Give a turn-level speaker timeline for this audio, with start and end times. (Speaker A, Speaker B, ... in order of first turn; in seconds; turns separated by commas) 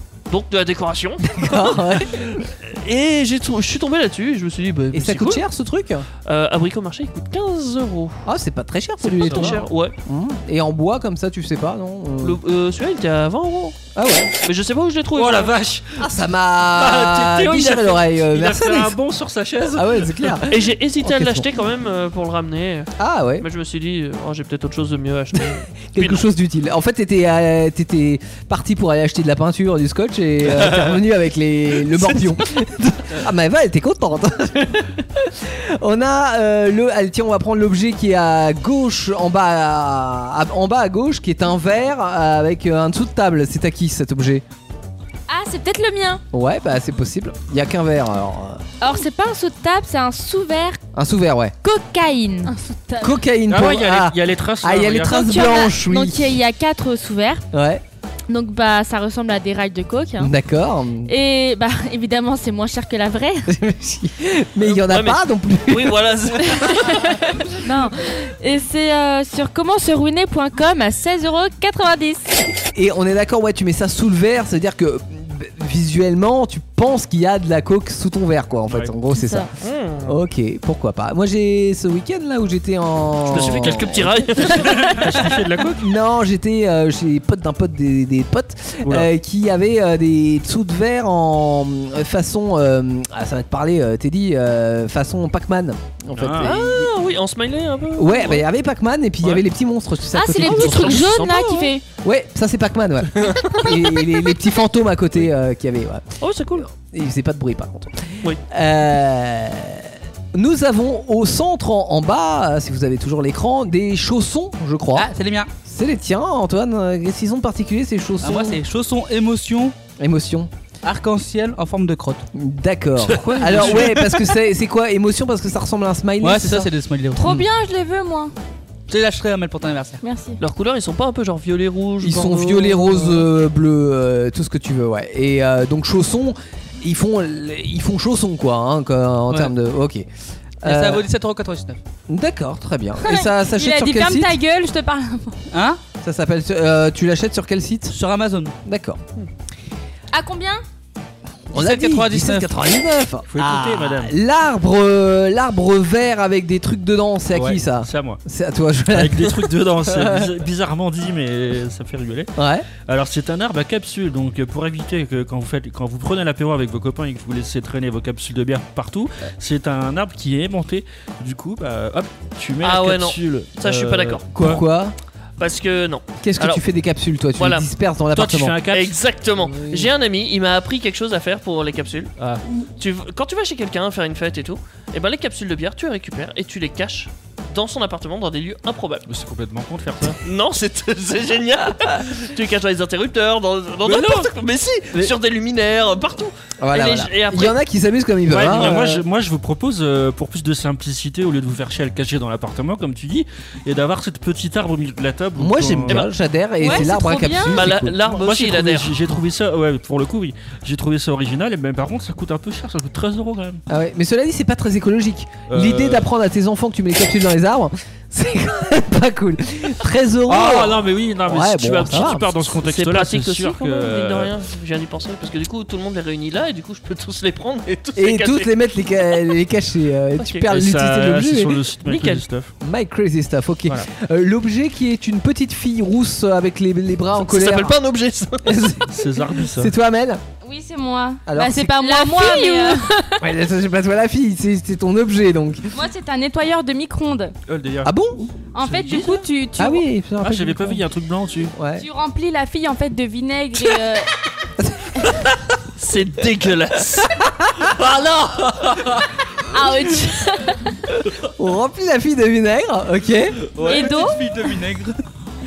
Speaker A: 0.3-5.4, Speaker B: 1.3-2.4, Speaker B: 4.9-6.1, Speaker A: 6.3-8.2, Speaker B: 8.3-12.4, Speaker A: 9.0-9.9, Speaker C: 9.2-9.6, Speaker A: 12.2-13.8, Speaker B: 13.9-14.3, Speaker A: 14.4-15.6, Speaker C: 15.2-16.0, Speaker B: 16.0-19.0, Speaker C: 16.7-20.4, Speaker B: 19.7-21.5, Speaker A: 20.5-26.3, Speaker B: 23.0-23.5, Speaker B: 25.4-44.4, Speaker D: 45.3-46.2, Speaker B: 46.3-48.6, Speaker D: 48.8-50.8, Speaker B: 50.9-51.5, Speaker D: 51.6-52.5, Speaker E: 52.5-53.1, Speaker B: 53.0-56.4, Speaker C: 53.5-55.2, Speaker D: 55.1-57.4, Speaker B: 57.5-57.8, Speaker D: 58.3-60.3, Speaker B: 60.2-61.1, Speaker D: 61.1-63.5, Speaker B: 63.5-66.0, Speaker A: 64.6-67.1, Speaker D: 66.8-72.3, Speaker B: 72.7-79.5, Speaker C: 78.7-78.9, Speaker D: 79.1-79.5, Speaker A: 79.6-80.2, Speaker B: 80.0-84.6, Speaker A: 83.3-85.3, Speaker C: 83.6-83.9, Speaker C: 84.5-85.9, Speaker B: 85.8-96.9, Speaker C: 96.2-96.5, Speaker A: 96.4-98.5, Speaker B: 98.0-101.1, Speaker D: 100.1-101.8, Speaker A: 100.4-101.7, Speaker B: 102.0-106.1, Speaker A: 103.2-103.8, Speaker A: 106.2-106.7, Speaker B: 106.6-115.1, Speaker F: 115.0-115.5, Speaker B: 115.7-118.6, Speaker F: 118.2-119.8, Speaker B: 120.0-120.5, Speaker F: 120.8-122.2, Speaker B: 122.3-126.7, Speaker C: 123.2-123.9, Speaker F: 123.3-123.8, Speaker F: 126.2-127.5, Speaker E: 127.2-128.3, Speaker F: 128.9-130.0, Speaker E: 130.0-130.4, Speaker A: 130.4-133.3, Speaker B: 132.0-140.1, Speaker B: 140.6-141.1, Speaker F: 140.6-141.8, Speaker B: 142.1-144.4, Speaker E: 143.0-145.4, Speaker F: 145.5-145.8, Speaker B: 146.0-148.0, Speaker F: 147.9-148.5, Speaker B: 148.7-149.0, Speaker E: 150.1-150.6, Speaker B: 151.5-160.3, Speaker F: 151.5-152.5, Speaker C: 153.3-154.2, Speaker C: 157.3-158.2, Speaker C: 158.9-162.3, Speaker B: 162.4-162.7, Speaker C: 162.9-174.6, Speaker A: 172.6-174.2, Speaker B: 174.3-174.9, Speaker A: 175.4-176.6, Speaker B: 176.2-178.6, Speaker A: 177.4-177.7, Speaker C: 178.1-179.0, Speaker A: 178.7-182.1, Speaker B: 179.5-179.9, Speaker A: 182.8-189.1, Speaker C: 189.1-190.2, Speaker A: 190.2-197.6, Speaker C: 193.8-194.3, Speaker B: 196.6-199.0, Speaker C: 198.3-206.0, Speaker B: 205.4-208.0, Speaker E: 206.6-207.6, Speaker A: 207.5-209.0, Speaker C: 207.9-213.6, Speaker B: 213.7-222.3, Speaker C: 215.5-216.1, Speaker C: 220.3-224.3, Speaker A: 222.6-228.5, Speaker B: 228.0-231.6, Speaker A: 230.2-230.5, Speaker C: 230.4-232.5, Speaker B: 232.6-237.8, Speaker A: 237.2-238.5, Speaker B: 238.4-240.2, Speaker C: 238.9-239.7, Speaker E: 240.4-242.8, Speaker B: 241.3-242.0, Speaker D: 241.8-242.8, Speaker B: 243.2-245.7, Speaker E: 245.7-247.3, Speaker C: 247.5-247.9, Speaker B: 247.8-248.3, Speaker E: 248.5-249.8, Speaker C: 248.6-249.2, Speaker B: 249.6-250.8, Speaker C: 250.2-251.5, Speaker B: 251.6-251.9, Speaker E: 251.8-254.1, Speaker B: 254.6-255.1, Speaker A: 255.8-257.3, Speaker B: 258.4-258.8, Speaker E: 259.5-260.6, Speaker B: 261.3-263.4, Speaker F: 263.6-264.9, Speaker E: 263.6-264.2